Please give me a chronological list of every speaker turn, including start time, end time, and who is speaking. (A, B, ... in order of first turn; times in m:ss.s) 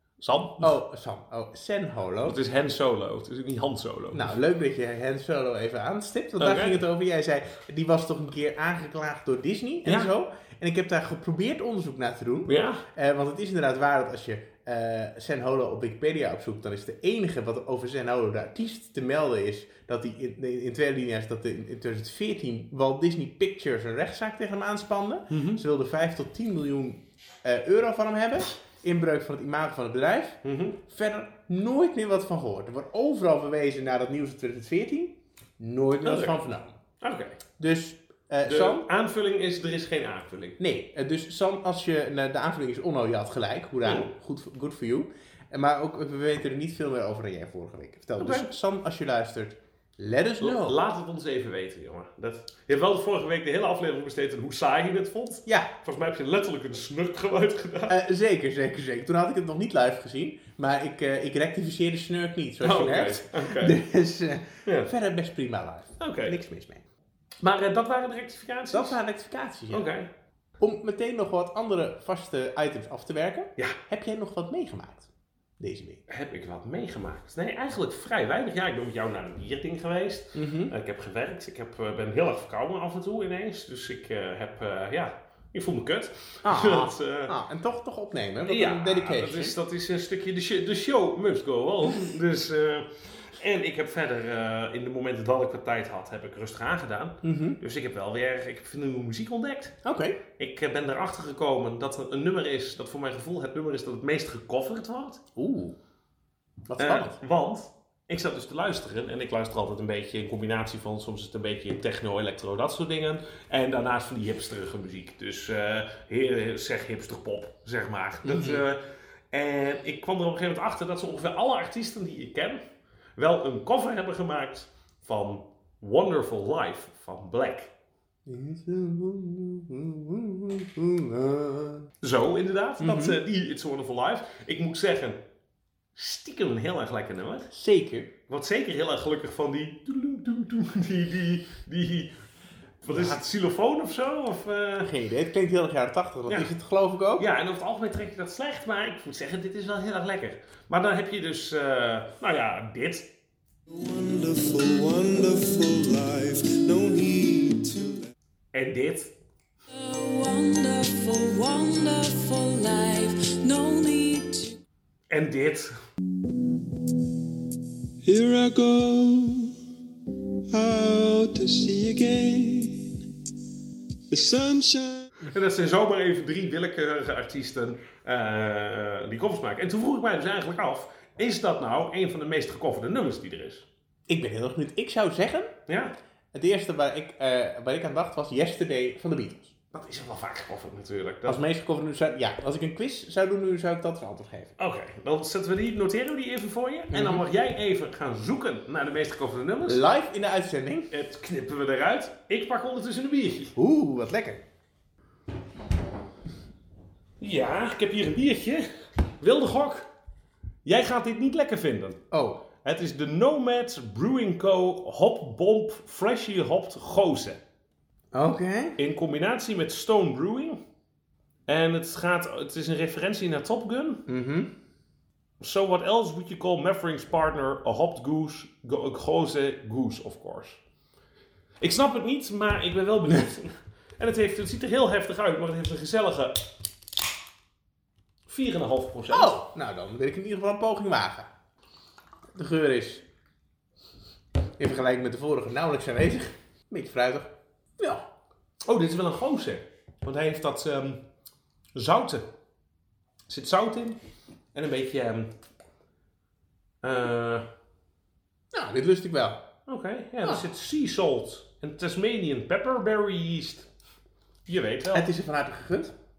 0:00.2-0:00.7 A
0:00.6-0:02.4 B
0:02.2-0:04.3 A
0:04.1-0:36.7 B
0:06.4-0:06.8 A
0:12.5-0:12.8 A
0:25.3-0:25.6 A
0:30.4-0:30.8 A
0:36.0-0:36.3 A
0:37.0-0:37.4 A
0:37.6-0:38.8 B
0:38.4-0:40.6 A
0:40.6-0:50.8 B
0:43.8-0:44.1 A
0:48.2-0:48.5 A
0:50.4-0:58.0 A
0:57.9-1:06.8 B
1:02.6-1:03.8 A
1:04.6-1:04.9 A
1:06.0-1:06.4 A
1:07.4-1:09.0 A
1:08.7-1:09.9 B
1:09.7-1:10.1 A
1:10.6-1:15.1 B
1:15.6-1:16.0 B
1:16.1-1:27.3 A
1:20.3-1:20.7 B
1:26.4-1:29.5 B
1:28.5-1:39.7 A
1:37.2-1:37.6 B
1:39.8-1:40.2 B
1:40.4-1:45.2 A
1:45.4-1:45.8 B
1:46.7-1:47.2 B
1:46.8-2:02.6 A
1:58.2-1:58.6 B
2:03.2-2:07.7 A
2:08.2-2:11.9 B
2:12.0-2:15.2 A
2:12.8-2:13.2 B
2:15.9-2:17.5 A
2:17.5-2:18.1 B
2:18.3-2:22.1 A
2:22.8-2:24.9 A
2:22.9-2:23.2 B
2:24.8-2:27.2 B
2:27.2-2:33.1 A
2:33.7-2:38.1 C
2:38.5-2:39.1 A
2:39.7-2:44.6 D
2:45.1-2:45.7 A
2:48.0-2:49.5 C
2:50.5-2:53.0 C
2:54.1-2:55.1 C
2:55.2-3:03.7 A
3:04.1-3:05.5 B
3:05.7-3:05.9 A
3:06.3-3:09.5 B
3:09.7-3:11.4 A
3:11.2-3:14.6 B
3:14.6-3:19.8 A
3:16.9-3:17.2 B
3:19.6-3:20.9 B
3:20.9-3:23.5 A
3:23.6-3:24.4 B
3:27.2-3:28.7 A
3:29.2-3:29.9 A
3:30.6-3:32.0 A
3:32.1-3:32.4 B
3:32.6-3:37.4 A
3:38.1-3:38.8 B
3:38.8-3:40.6 A
3:41.5-3:44.0 A
3:44.1-3:44.5 B
3:45.4-3:50.6 A
3:51.6-3:56.5 A
3:58.3-3:59.4 A
3:59.1-4:01.3 B
4:02.3-4:03.0 B
4:04.6-4:08.0 B
4:08.6-4:11.0 A
4:11.7-4:12.3 A
4:13.3-4:14.0 A
4:14.5-4:15.3 A
4:16.8-4:17.5 A
4:18.5-4:19.4 B
4:19.7-4:23.7 A
4:24.5-4:25.0 A
4:24.9-4:25.9 B